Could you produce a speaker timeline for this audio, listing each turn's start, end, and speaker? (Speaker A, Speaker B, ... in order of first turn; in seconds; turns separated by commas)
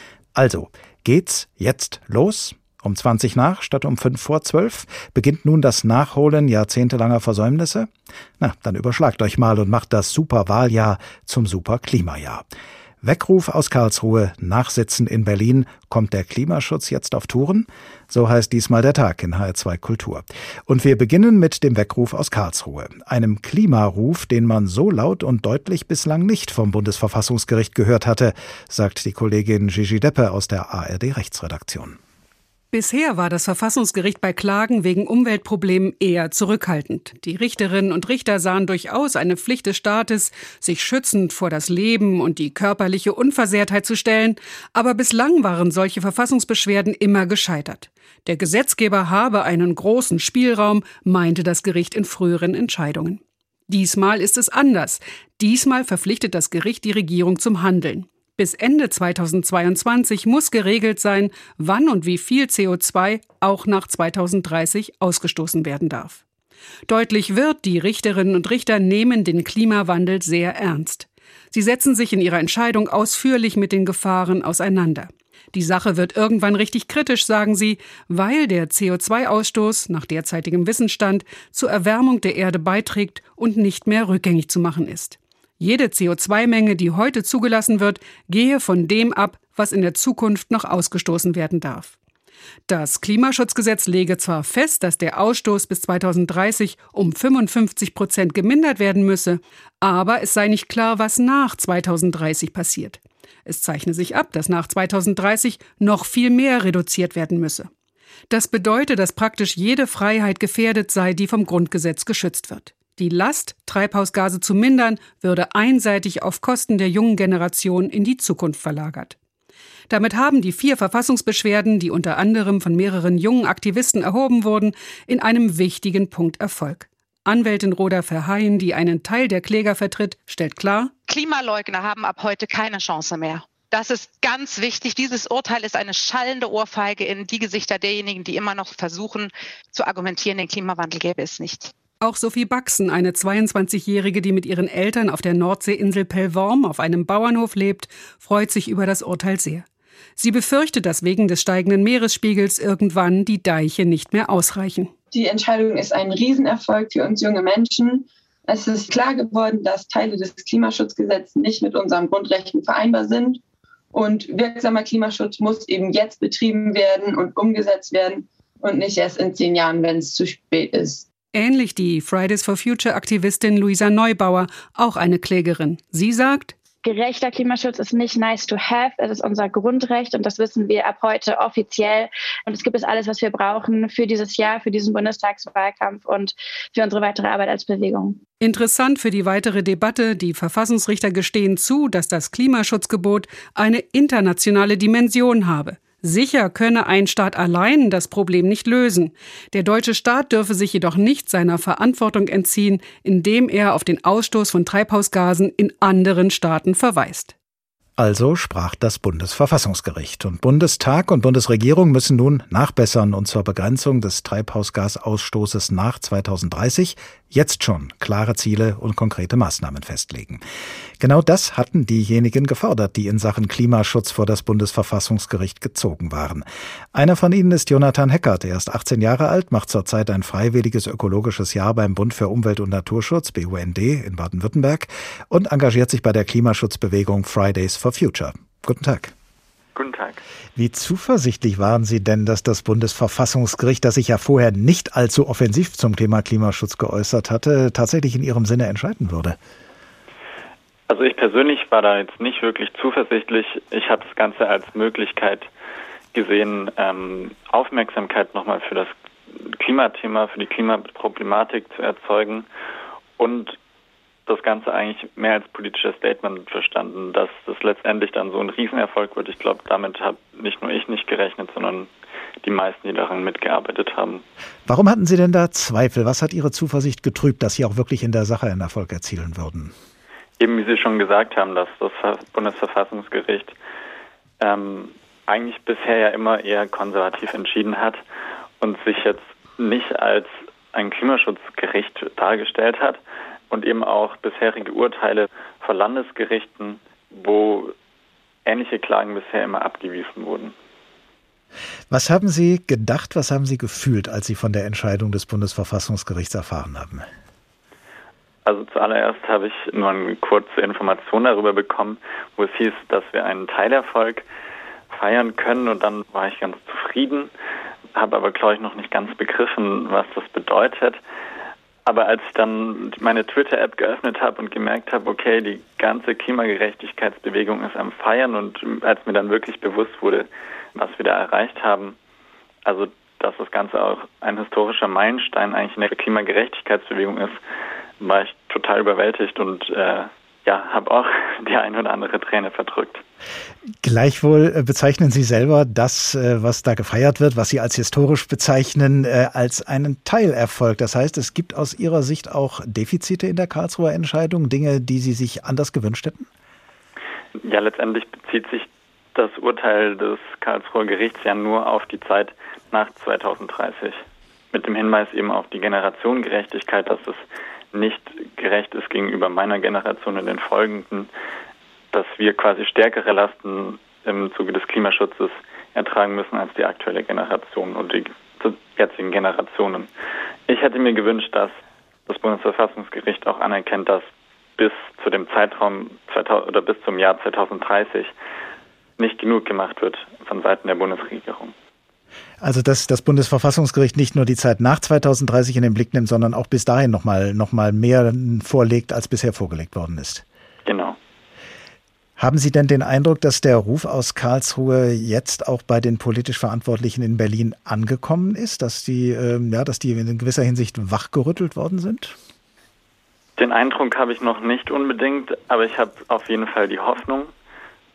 Speaker A: 0.3-12.5, Speaker A: 13.0-32.0, Speaker B: 32.7-66.2, Speaker B: 66.9-91.9, Speaker B: 92.7-107.7, Speaker B: 108.3-119.2, Speaker B: 119.9-130.9, Speaker C: 131.1-141.7, Speaker B: 142.0-149.7, Speaker B: 150.2-154.9, Speaker D: 155.1-163.4, Speaker D: 163.9-171.1, Speaker B: 171.3-176.6, Speaker E: 176.8-188.2, Speaker B: 188.4-207.3, Speaker A: 208.0-220.4, Speaker A: 221.0-239.1, Speaker F: 239.8-240.2, Speaker A: 240.6-249.4, Speaker F: 250.9-255.5, Speaker F: 256.1-262.5, Speaker F: 263.2-263.6, Speaker F: 264.3-271.9, Speaker F: 272.4-274.2, Speaker A: 274.7-279.7, Speaker F: 280.4-283.5, Speaker F: 284.4-288.0, Speaker F: 288.6-297.7, Speaker F: 298.5-300.5, Speaker A: 301.9-307.1, Speaker F: 308.5-314.2, Speaker F: 314.9-317.3, Speaker F: 317.9-321.0, Speaker F: 321.9-332.0, Speaker F: 332.6-337.4, Speaker F: 338.0-343.0, Speaker A: 343.8-356.3, Speaker F: 357.4-371.1, Speaker F: 371.9-379.9, Speaker F: 380.5-381.5, Speaker F: 382.1-384.1, Speaker F: 384.6-388.1, Speaker F: 389.0-391.5, Speaker A: 392.4-400.2, Speaker F: 400.7-401.0, Speaker A: 402.2-412.2, Speaker F: 413.4-417.3